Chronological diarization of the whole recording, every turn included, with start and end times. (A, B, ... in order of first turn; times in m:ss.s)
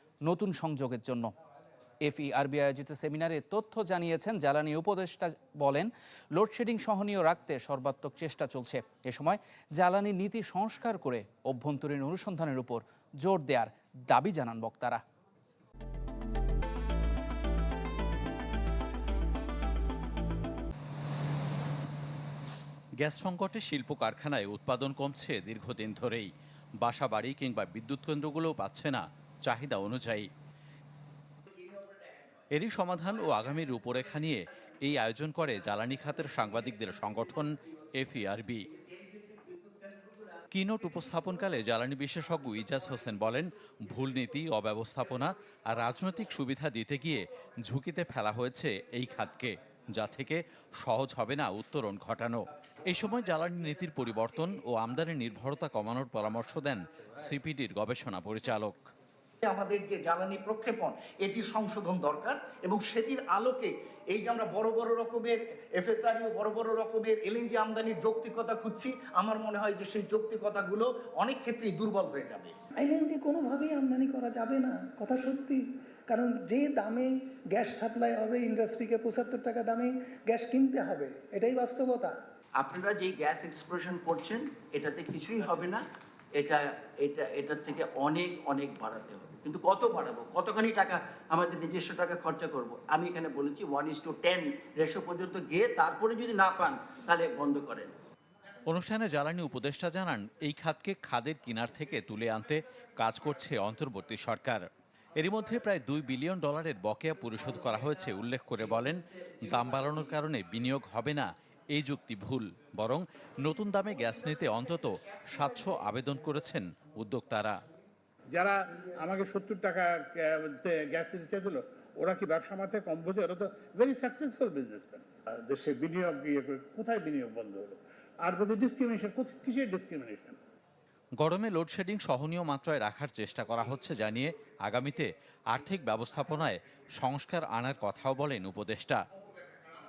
0:00.2-0:01.3 A
0:02.0-0:15.0 A
0:23.0-0:26.3 B
0:26.8-0:30.3 B
0:32.6-0:38.6 B
0:40.5-0:58.9 B
0:59.4-1:12.5 C
1:12.8-1:22.1 D
1:22.6-1:25.8 E
1:26.4-1:37.9 E
1:38.7-1:44.6 B
1:45.2-1:57.6 B
1:58.3-2:10.4 F
2:11.2-2:19.0 B